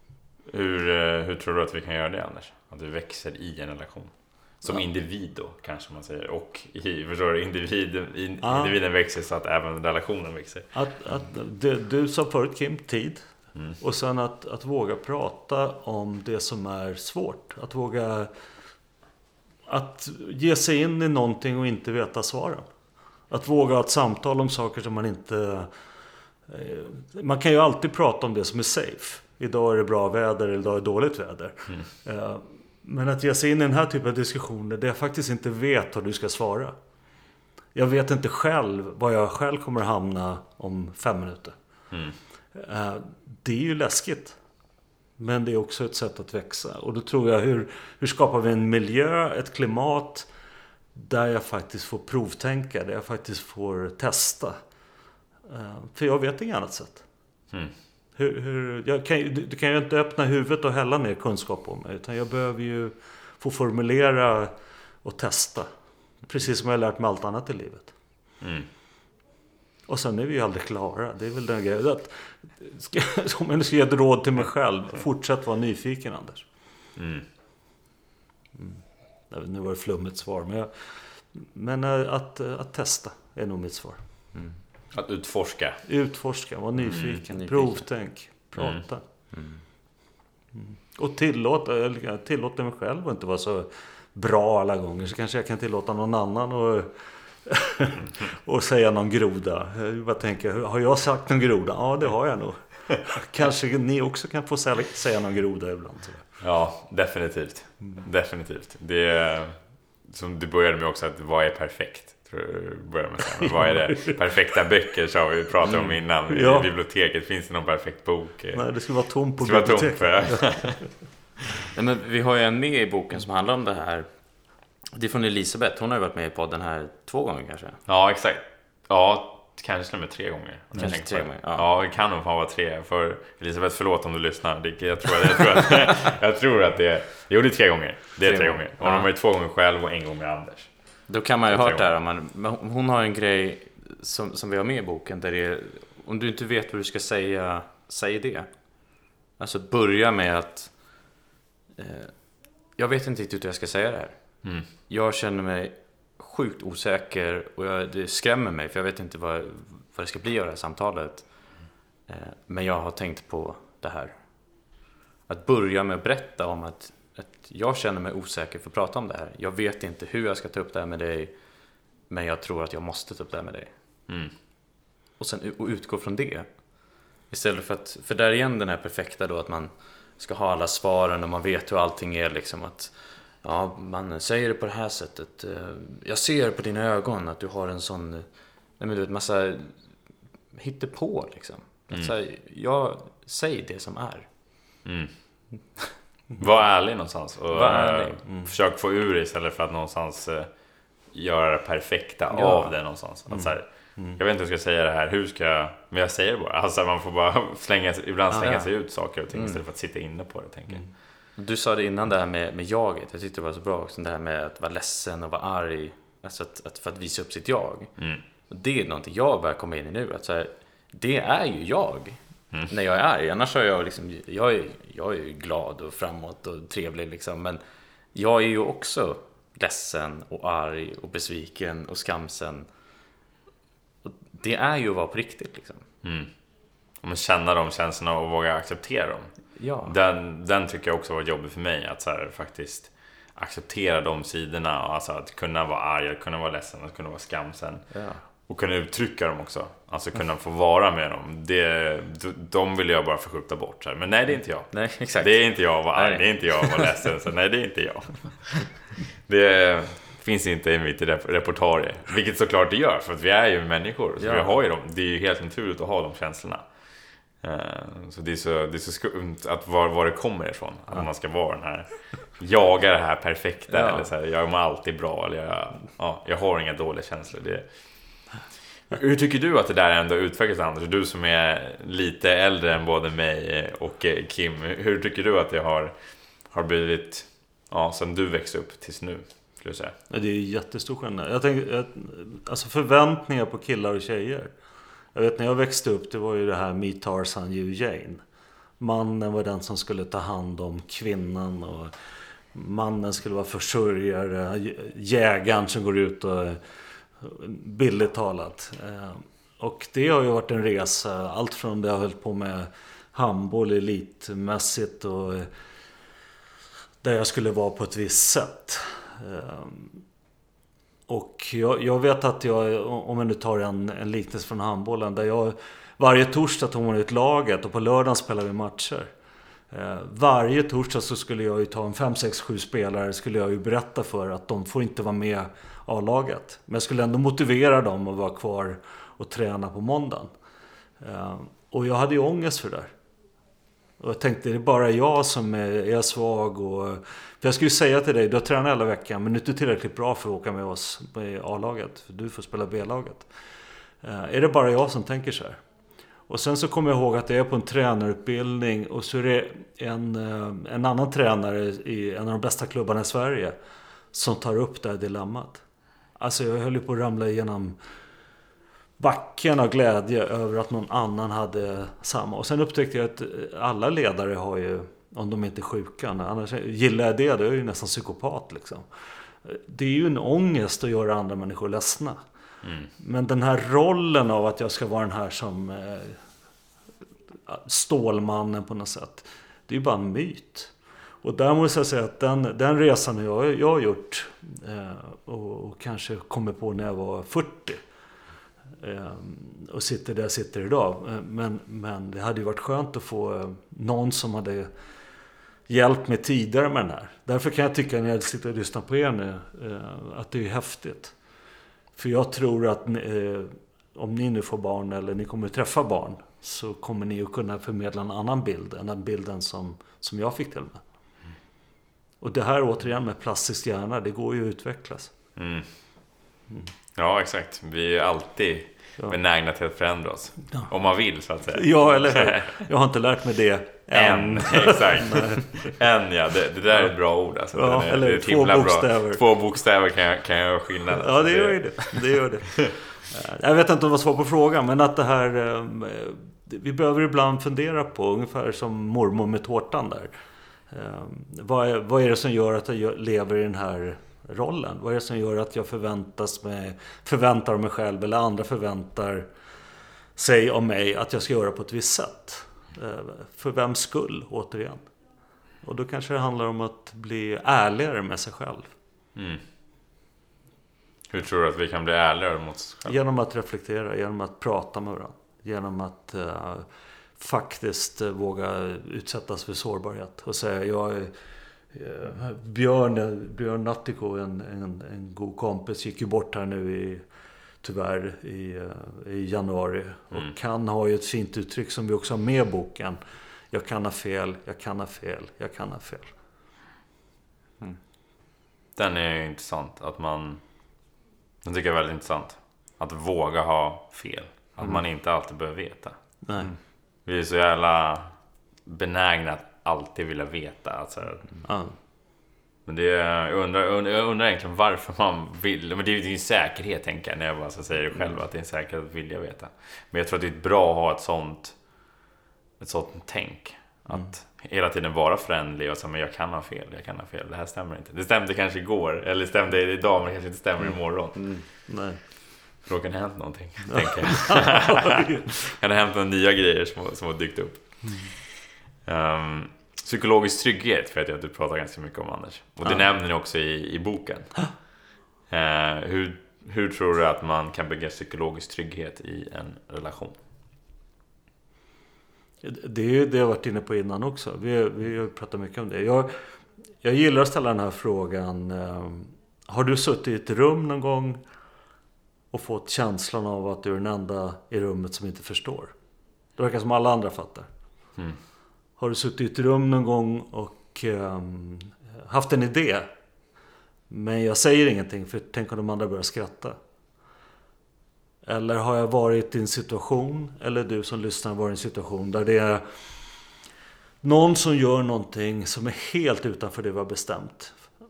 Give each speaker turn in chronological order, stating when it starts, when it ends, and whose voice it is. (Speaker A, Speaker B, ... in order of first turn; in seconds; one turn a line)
Speaker A: 0.5-10.7
Speaker B: 8.4-8.7
Speaker B: 10.7-13.2
Speaker B: 13.8-18.3
Speaker B: 19.7-22.7
Speaker B: 23.3-25.7
Speaker B: 26.5-36.7
Speaker B: 37.7-41.5
Speaker B: 42.5-44.4
Speaker B: 45.2-50.3
Speaker B: 50.9-54.6
Speaker B: 55.5-57.0
Speaker B: 58.1-64.5
Speaker B: 65.0-65.7
Speaker B: 66.2-67.9
Speaker A: 68.4-68.7
Speaker B: 69.9-76.5
Speaker A: 77.0-77.2
Speaker B: 78.5-84.0
Speaker A: 84.9-85.8
Speaker B: 85.8-89.0
Speaker C: 86.8-87.8
Speaker A: 86.9-87.2
Speaker C: 89.3-89.6
Speaker B: 90.5-96.9
Speaker B: 97.4-106.2
Speaker A: 106.4-118.7
Speaker B: 113.6-114.1
Speaker C: 115.6-116.0
Speaker B: 116.3-116.7
Speaker B: 118.5-120.7
Speaker A: 119.4-120.9
Speaker C: 121.7-124.1
Speaker C: 124.9-127.8
Speaker A: 127.9-141.8
Speaker C: 130.8-131.7
Speaker C: 138.2-139.1
Speaker C: 141.1-150.7
Speaker C: 151.8-161.5
Speaker C: 162.1-164.1
Speaker C: 165.3-171.3
Speaker C: 172.1-173.7
Speaker C: 175.2-188.2
Speaker C: 188.8-189.8
Speaker C: 190.5-194.3
Speaker A: 194.8-195.1
Speaker A: 196.3-210.8
Speaker C: 197.5-198.2
Speaker C: 202.3-202.7
Speaker B: 203.3-204.2
Speaker C: 208.4-208.7
Speaker C: 209.3-209.6
Speaker C: 211.3-217.9
Speaker A: 218.0-218.2
Speaker C: 218.5-227.6
Speaker C: 228.1-232.7
Speaker C: 234.0-235.8
Speaker A: 236.0-236.3
Speaker A: 237.0-239.3
Speaker C: 239.6-239.9
Speaker A: 239.8-258.7
Speaker C: 247.9-248.2
Speaker C: 254.7-257.0
Speaker A: 259.2-266.7
Speaker C: 264.2-264.6
Speaker A: 267.4-278.3
Speaker C: 273.7-274.1
Speaker A: 278.9-289.9
Speaker B: 290.1-294.5
Speaker B: 295.1-298.2
Speaker B: 298.8-301.9
Speaker B: 302.5-306.6
Speaker B: 307.2-315.5
Speaker B: 317.0-320.0
Speaker B: 321.1-329.1
Speaker B: 329.7-340.3
Speaker B: 341.0-342.9
Speaker B: 344.0-353.3
Speaker B: 354.0-355.6
Speaker B: 356.3-363.5
Speaker B: 364.1-365.6
Speaker B: 366.2-367.8
Speaker B: 369.0-378.9
Speaker B: 379.4-382.2
Speaker A: 382.6-382.9
Speaker B: 383.0-386.2
Speaker B: 387.5-397.8
Speaker B: 398.8-404.7
Speaker B: 405.7-411.1
Speaker B: 411.9-420.8
Speaker B: 422.2-425.1
Speaker A: 425.4-425.7
Speaker A: 426.9-432.5
Speaker B: 431.5-435.7
Speaker A: 433.9-442.7
Speaker B: 437.5-439.2
Speaker B: 441.0-450.1
Speaker B: 450.7-459.3
Speaker B: 460.1-464.9
Speaker B: 465.6-468.7
Speaker A: 469.1-469.4
Speaker A: 471.1-472.9
Speaker B: 472.9-481.1
Speaker B: 481.7-487.0
Speaker B: 487.6-493.0
Speaker B: 493.5-496.1
Speaker A: 498.8-500.4
Speaker A: 501.4-505.9
Speaker B: 506.2-506.5
Speaker A: 507.1-508.1
Speaker A: 508.6-511.3
Speaker B: 511.4-511.7
Speaker A: 512.6-521.5
Speaker A: 522.6-531.3
Speaker C: 530.6-531.4
Speaker B: 531.7-532.0
Speaker A: 532.6-544.6
Speaker B: 533.7-535.1
Speaker A: 545.3-550.2
Speaker B: 552.4-556.1
Speaker B: 556.8-561.2
Speaker B: 562.3-565.7
Speaker B: 566.4-567.5
Speaker B: 568.8-572.9
Speaker B: 573.9-576.6
Speaker B: 578.2-582.6
Speaker B: 584.0-587.7